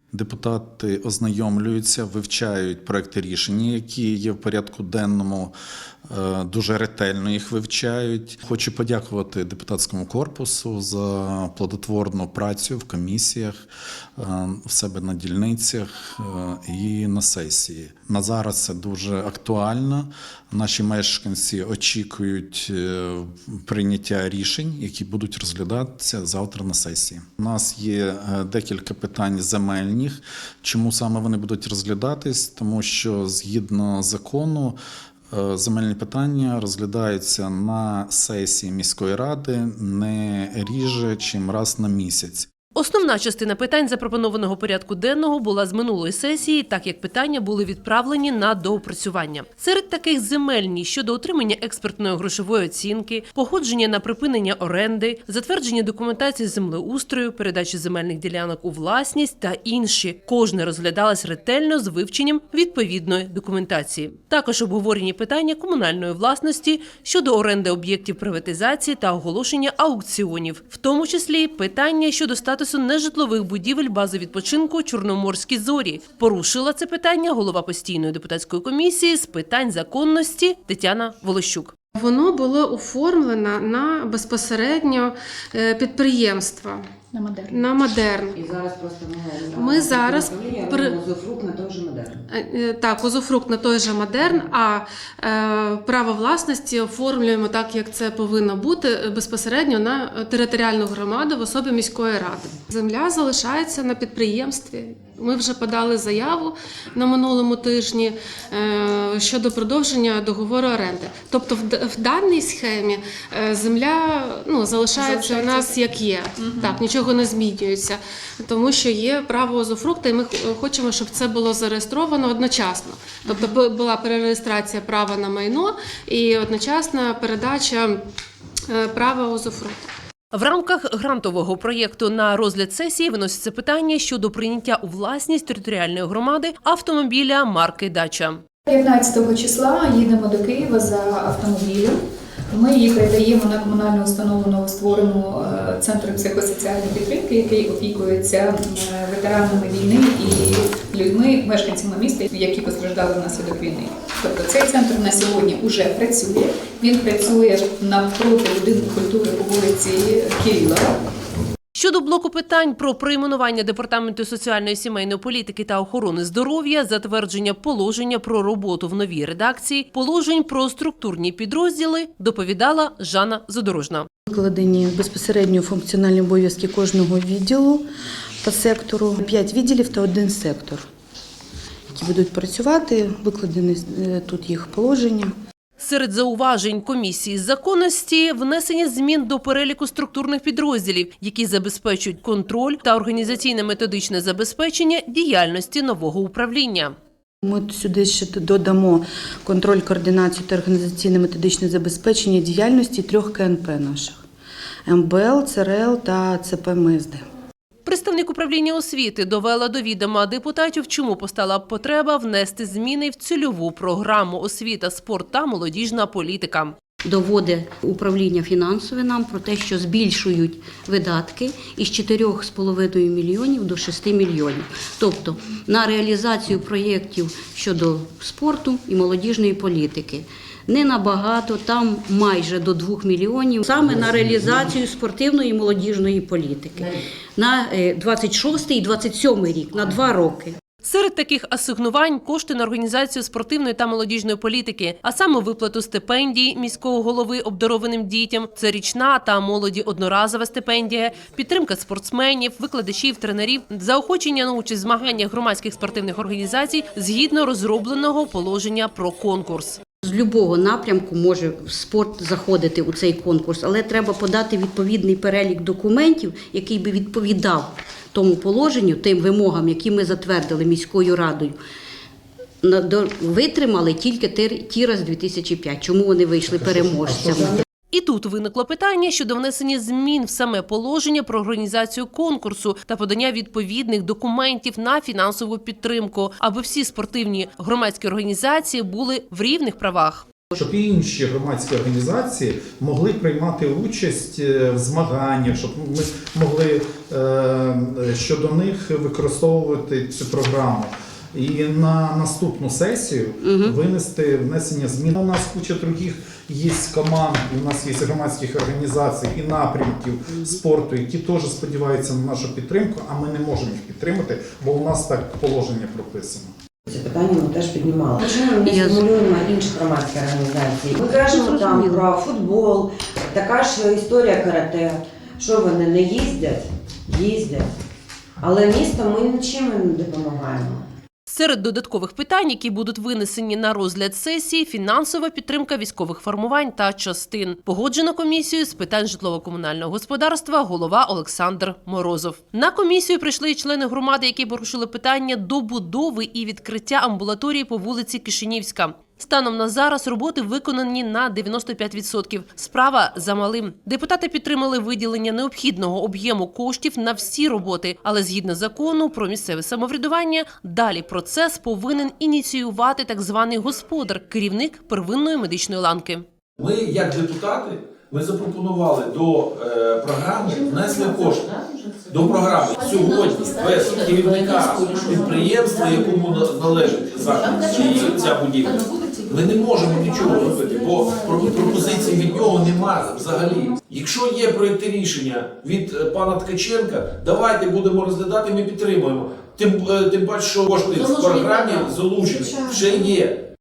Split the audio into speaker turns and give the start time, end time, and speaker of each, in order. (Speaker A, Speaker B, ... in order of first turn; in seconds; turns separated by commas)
Speaker A: 0.1-5.5, Speaker A: 6.1-13.6, Speaker A: 14.2-34.8, Speaker A: 35.3-42.5, Speaker B: 42.8-81.7, Speaker C: 82.0-86.8, Speaker D: 87.1-87.7, Speaker C: 87.5-88.4, Speaker E: 88.3-92.2, Speaker C: 89.5-91.0, Speaker C: 92.3-128.0, Speaker D: 115.0-115.8, Speaker D: 116.4-116.8, Speaker C: 128.7-129.8, Speaker B: 130.3-138.4, Speaker D: 138.7-142.0, Speaker D: 142.5-160.9, Speaker B: 161.7-174.1, Speaker F: 174.3-177.8, Speaker F: 178.4-180.8, Speaker F: 181.9-185.3, Speaker B: 185.8-196.9, Speaker F: 197.4-204.2, Speaker F: 204.9-207.2, Speaker B: 207.8-216.8, Speaker G: 217.1-240.6, Speaker B: 240.8-259.8, Speaker G: 260.0-271.6, Speaker G: 272.6-277.6, Speaker A: 276.5-277.6, Speaker B: 277.9-290.3, Speaker A: 290.5-316.5, Speaker G: 303.4-303.8, Speaker E: 316.9-327.7, Speaker G: 318.6-319.1, Speaker G: 321.0-322.1, Speaker E: 328.4-330.9, Speaker B: 331.3-366.2, Speaker H: 366.6-393.4